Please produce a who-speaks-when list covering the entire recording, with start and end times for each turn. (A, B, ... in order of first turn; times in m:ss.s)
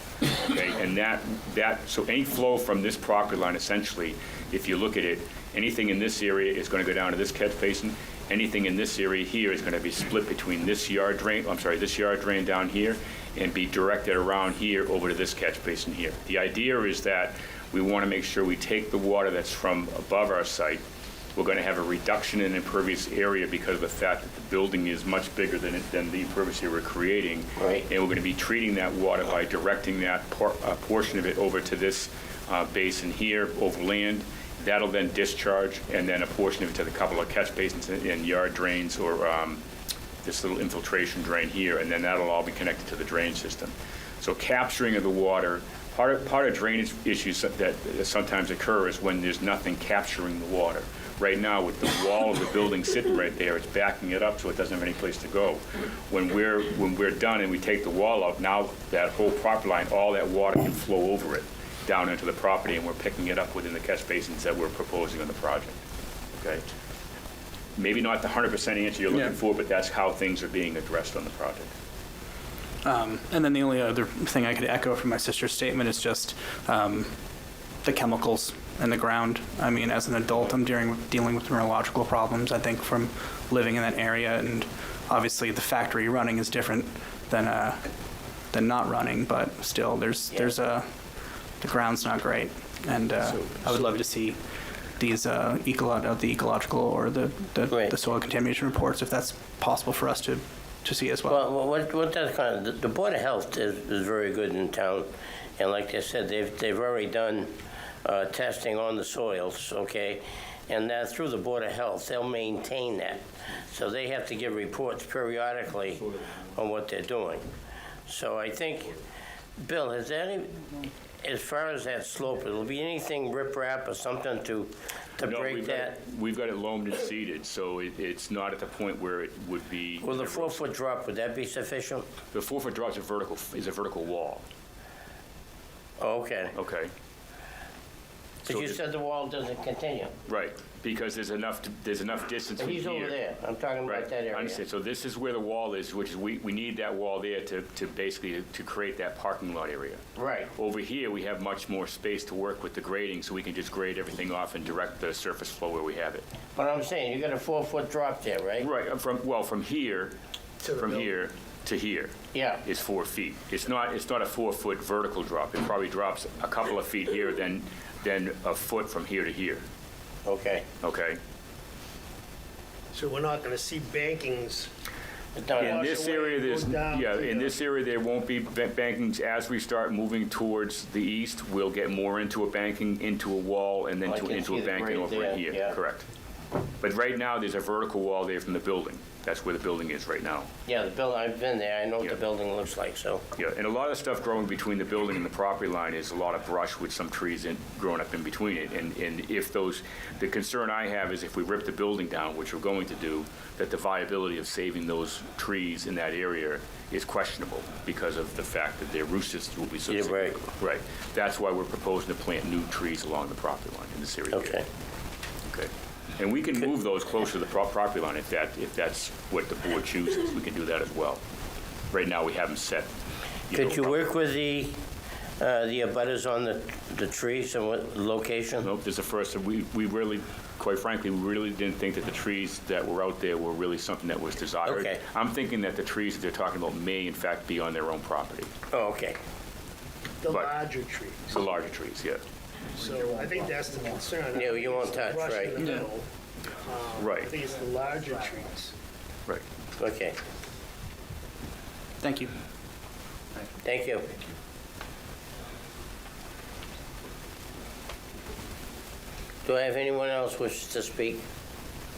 0:00.3-0:20.8 A
0:21.4-0:39.6 A
0:27.6-0:27.8 B
0:40.2-1:05.8 A
1:06.4-1:06.7 A
1:07.8-1:11.7 A
1:12.8-1:17.1 C
1:17.8-1:41.4 C
1:33.2-1:33.8 A
1:41.3-1:47.5 B
1:48.0-1:57.4 B
1:58.1-1:59.0 B
1:59.6-2:00.6 B
2:01.2-2:06.0 B
2:05.2-2:10.6 A
2:10.0-2:12.0 B
2:12.3-2:14.4 A
2:16.0-2:16.5 B
2:16.5-2:16.9 A
2:18.5-2:18.8 A
2:18.5-2:20.1 B
2:20.3-2:23.2 A
2:22.6-2:24.6 B
2:23.8-2:30.0 A
2:30.2-2:30.5 B
2:30.5-2:36.2 A
2:36.6-2:38.7 B
2:38.6-2:49.6 A
2:42.3-2:42.6 B
2:50.2-2:50.6 B
2:50.8-2:51.2 A
2:52.9-2:54.7 D
2:55.4-2:55.8 B
2:55.6-2:57.5 D
2:55.6-3:06.0 A
3:04.0-3:05.7 B
3:06.8-3:10.5 A
3:10.7-3:13.2 B
3:13.4-3:34.6 A
3:29.9-3:30.4 B
3:34.3-3:34.6 B
3:35.5-3:41.2 A
3:41.9-3:42.9 A
3:43.5-3:44.0 A
3:43.5-3:44.8 B
3:45.4-3:48.7 B
3:48.6-3:58.5 A
3:54.6-3:55.0 B
3:58.7-3:59.2 B
4:00.2-4:01.4 D
4:00.3-4:00.6 A
4:01.3-4:02.2 A
4:02.8-4:06.0 D
4:04.3-4:05.6 B
4:06.6-4:08.7 D
4:07.0-4:07.3 A
4:09.8-4:10.2 B
4:12.0-4:12.3 C
4:13.6-4:14.1 B
4:19.4-4:21.2 B